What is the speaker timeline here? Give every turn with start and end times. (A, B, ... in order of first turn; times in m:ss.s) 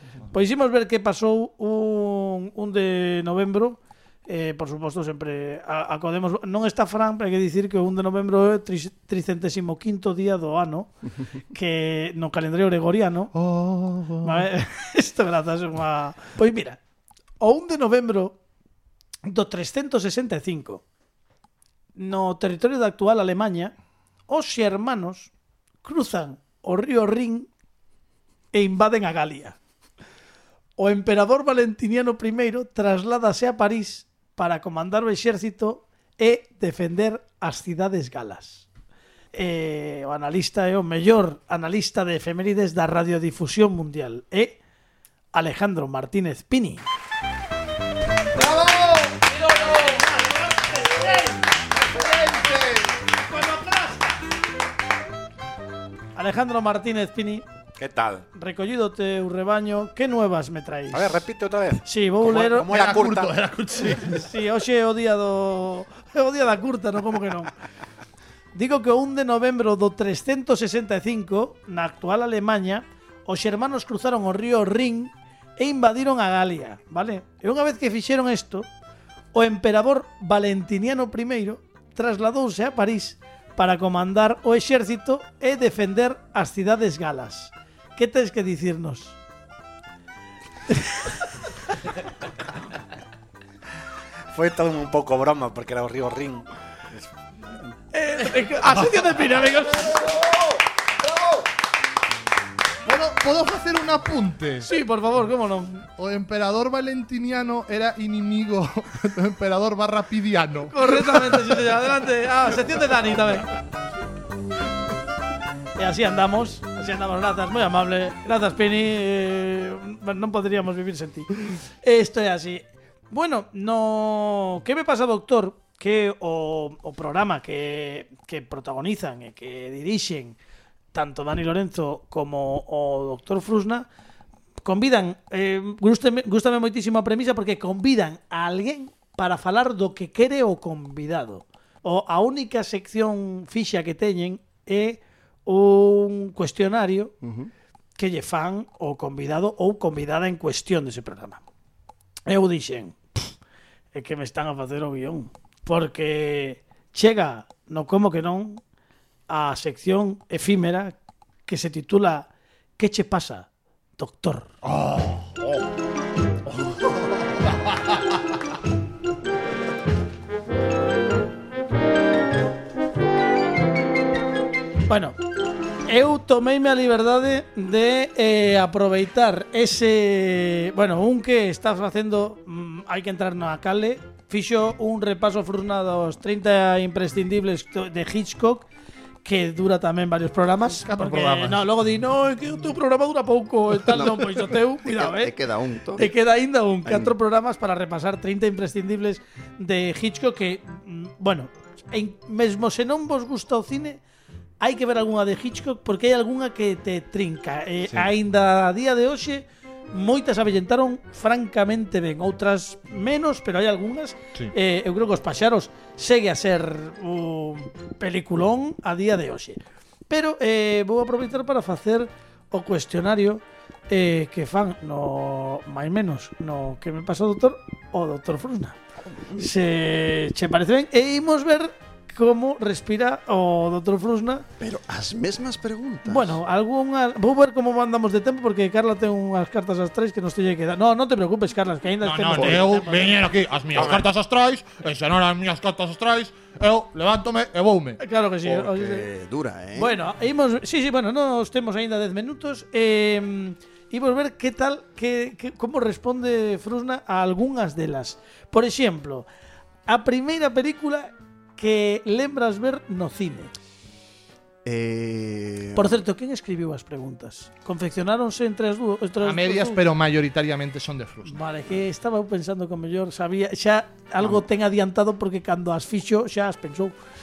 0:00.3-0:10.9 A
0:11.5-0:13.3 A
0:13.3-0:14.5 B
0:14.2-0:16.8 A
0:17.4-0:18.4 A
0:19.3-0:20.8 A
0:22.0-0:23.7 A
0:24.3-0:25.3 A
0:25.8-0:27.5 A
0:28.5-0:29.6 A
0:30.8-0:38.7 A
0:39.3-0:44.6 A
0:45.3-0:46.9 A
0:48.3-0:49.2 B
0:49.7-0:51.2 A
0:51.8-0:53.0 B
0:53.3-0:54.0 A
0:56.2-0:57.4 A
0:57.8-0:58.2 C
0:58.3-1:01.2 A
1:00.9-1:03.3 C
1:01.9-1:02.7 A
1:02.6-1:04.2 B
1:04.0-1:07.5 A
1:08.5-1:18.7 A
1:19.3-1:29.2 A
1:30.7-1:31.2 A
1:34.3-1:37.1 C
1:37.9-1:40.0 A
1:38.7-1:39.2 B
1:42.9-1:44.7 B
1:44.6-1:45.8 A
1:46.0-1:51.6 B
1:50.7-1:53.5 A
1:55.8-2:10.4 A
2:10.9-2:13.9 A
2:14.6-2:27.1 A
2:27.2-2:27.5 D
2:28.0-2:31.4 A
2:32.3-2:33.3 A
2:33.9-2:38.6 A
2:39.3-2:41.0 A
2:41.5-2:44.5 A
2:44.6-2:45.6 B
2:46.6-2:48.0 B
2:54.9-2:55.2 A
2:55.9-3:08.7 A
3:09.2-3:15.3 A
3:10.8-3:11.7 B
3:13.8-3:16.1 D
3:16.0-3:24.0 A
3:16.8-3:17.1 D
3:24.6-3:48.8 A
3:49.1-3:49.5 D
3:49.4-3:54.5 A
3:54.6-3:56.4 D
3:56.0-4:03.2 A
4:02.0-4:08.0 B
4:02.3-4:02.7 D
4:03.7-4:04.1 D
4:08.0-4:09.1 A
4:08.4-4:10.0 D
4:09.8-4:19.3 A
4:19.9-4:23.5 A
4:24.6-4:26.0 D
4:25.8-4:29.8 A
4:29.2-4:31.4 B
4:31.3-4:37.0 A